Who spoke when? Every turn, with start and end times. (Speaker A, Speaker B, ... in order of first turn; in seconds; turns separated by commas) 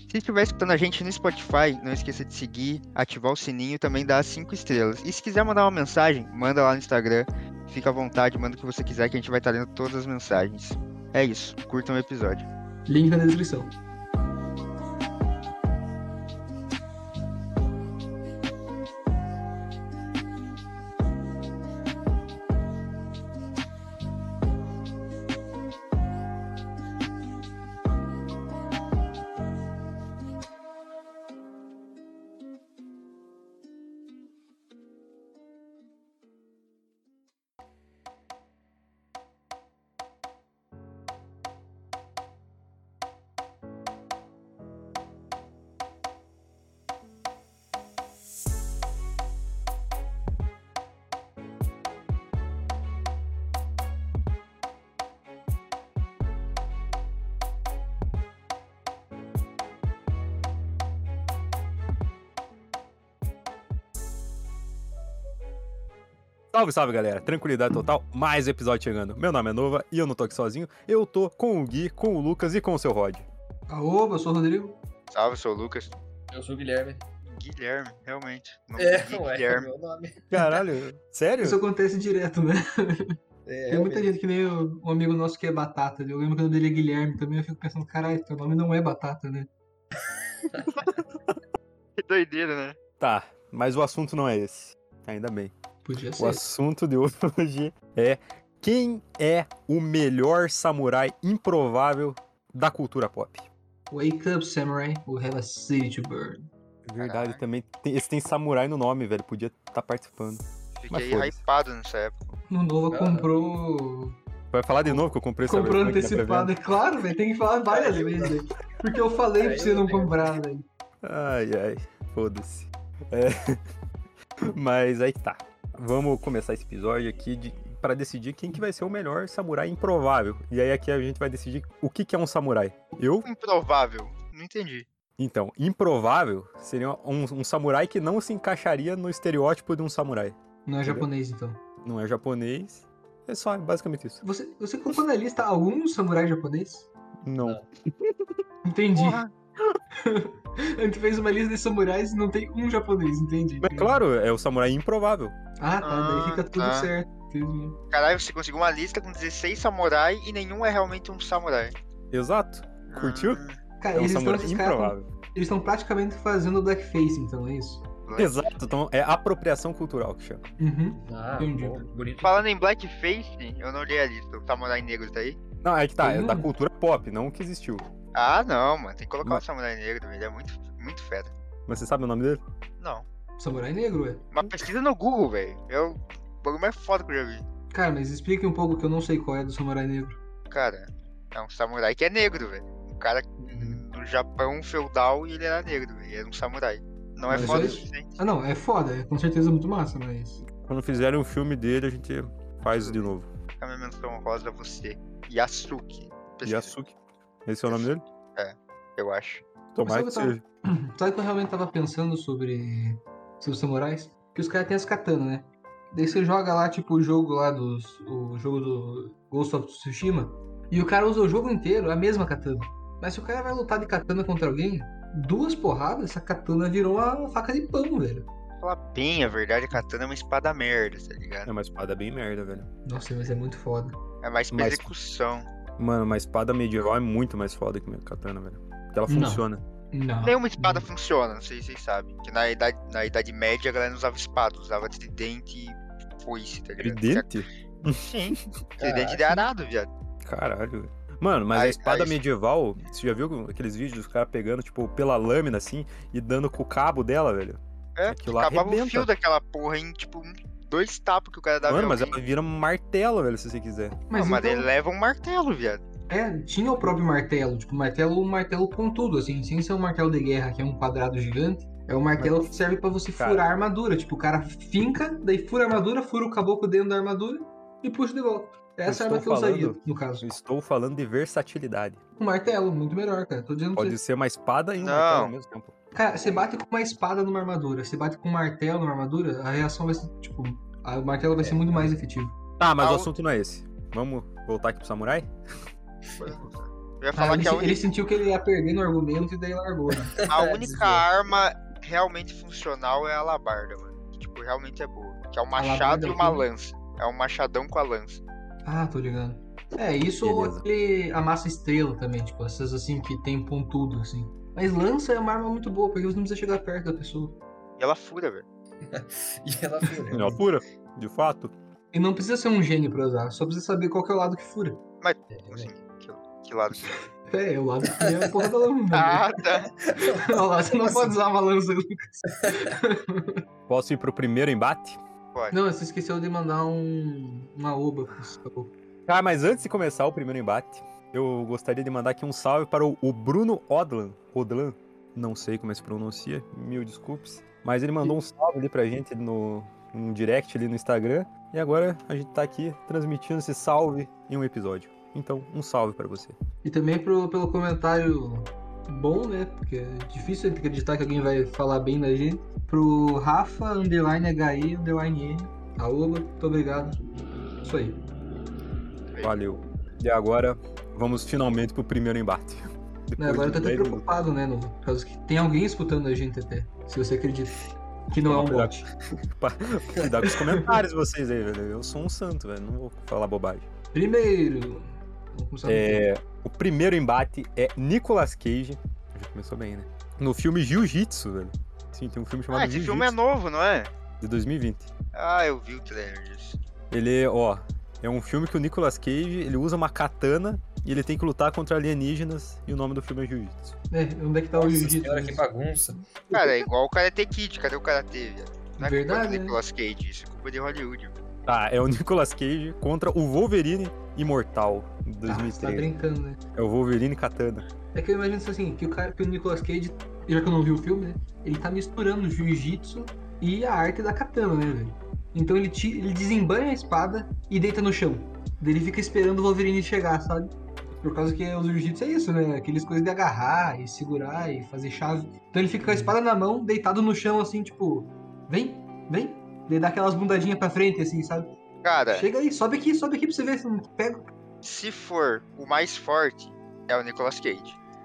Speaker A: 0.1-12.5, Speaker B: 12.9-13.7, Speaker C: 66.5-73.3, Speaker B: 73.7-74.8, Speaker A: 75.1-76.0, Speaker D: 76.3-77.0, Speaker A: 77.3-79.7, Speaker D: 78.8-80.6, Speaker C: 80.3-81.6, Speaker B: 81.4-83.2, Speaker D: 83.5-84.1, Speaker B: 83.7-89.5, Speaker A: 92.0-92.8, Speaker C: 93.0-95.5, Speaker B: 95.8-96.5, Speaker C: 96.2-103.5, Speaker B: 103.9-106.5, Speaker C: 106.8-111.4, Speaker A: 107.0-107.4, Speaker A: 110.8-112.3, Speaker B: 112.5-114.2, Speaker D: 112.9-113.3, Speaker C: 114.5-116.5, Speaker B: 114.8-120.7, Speaker D: 117.7-118.4, Speaker D: 119.4-120.2, Speaker C: 121.0-123.6, Speaker C: 124.4-133.3, Speaker A: 133.2-134.9, Speaker C: 135.2-141.1, Speaker B: 140.7-141.6, Speaker C: 141.8-144.2, Speaker B: 144.2-146.9, Speaker C: 147.2-148.3, Speaker B: 148.6-149.2, Speaker A: 148.9-149.3, Speaker B: 150.0-154.0, Speaker C: 153.6-155.3, Speaker B: 155.6-157.8, Speaker A: 155.8-156.9, Speaker A: 157.9-161.7, Speaker C: 162.1-163.4, Speaker A: 162.9-163.6, Speaker B: 163.8-167.8, Speaker C: 163.9-165.1, Speaker A: 168.1-168.5, Speaker C: 168.2-170.4, Speaker B: 170.6-171.9, Speaker D: 171.0-172.4, Speaker A: 172.2-175.4, Speaker C: 175.6-177.9, Speaker B: 176.0-176.5, Speaker A: 178.1-181.3, Speaker C: 181.7-182.4, Speaker A: 182.8-183.1, Speaker B: 183.4-184.3, Speaker A: 184.3-187.5, Speaker B: 187.7-190.2, Speaker A: 190.5-198.2, Speaker D: 193.5-193.8, Speaker C: 197.3-197.8, Speaker B: 197.3-200.4, Speaker C: 200.5-203.3, Speaker A: 202.8-206.7, Speaker C: 206.4-208.0, Speaker A: 207.7-209.4, Speaker C: 209.8-210.4, Speaker B: 209.8-228.3, Speaker A: 228.6-231.5, Speaker C: 231.5-232.7, Speaker B: 232.8-234.0, Speaker A: 234.2-235.5, Speaker C: 234.5-234.9, Speaker C: 235.8-239.6, Speaker B: 239.1-240.9, Speaker A: 240.2-249.9, Speaker C: 246.8-248.4, Speaker D: 248.8-249.4, Speaker C: 250.2-259.1, Speaker A: 251.5-252.2, Speaker A: 258.0-262.2, Speaker C: 261.6-264.0, Speaker B: 264.1-264.7, Speaker A: 264.1-265.8, Speaker B: 266.1-280.3, Speaker C: 273.2-273.5, Speaker C: 278.9-282.0, Speaker B: 282.2-284.0, Speaker C: 283.8-285.7, Speaker A: 284.8-285.3, Speaker B: 285.9-292.4, Speaker D: 291.4-292.0, Speaker C: 292.6-295.3, Speaker A: 292.8-293.1, Speaker A: 296.2-297.9, Speaker B: 297.1-301.1, Speaker A: 300.3-308.2, Speaker B: 305.6-306.5, Speaker B: 308.6-317.4, Speaker C: 310.2-310.6, Speaker A: 317.8-318.4, Speaker D: 318.9-320.4, Speaker C: 320.1-321.5, Speaker B: 321.9-324.8, Speaker A: 325.0-327.0, Speaker D: 325.3-325.7, Speaker B: 327.3-329.3, Speaker D: 327.9-328.3, Speaker A: 328.9-329.8, Speaker D: 329.9-331.1, Speaker B: 330.1-333.4, Speaker C: 333.7-335.0, Speaker B: 335.5-338.7, Speaker C: 339.1-356.4, Speaker B: 356.6-367.0, Speaker B: 367.6-368.0, Speaker C: 369.2-374.1, Speaker B: 373.2-377.6, Speaker B: 378.1-378.9, Speaker C: 378.3-383.7, Speaker B: 380.2-380.8, Speaker B: 383.9-386.1, Speaker C: 385.7-393.2, Speaker A: 392.5-393.9, Speaker C: 394.2-394.9, Speaker A: 395.1-396.6, Speaker C: 396.9-403.8, Speaker B: 403.9-405.4, Speaker D: 404.6-406.0, Speaker A: 406.3-411.2, Speaker C: 406.3-406.7, Speaker B: 408.8-409.6, Speaker C: 411.5-415.9, Speaker B: 415.3-416.4, Speaker C: 416.6-417.7, Speaker B: 417.9-441.6, Speaker D: 435.8-436.1, Speaker A: 441.8-442.3, Speaker B: 442.1-444.3, Speaker A: 444.6-447.8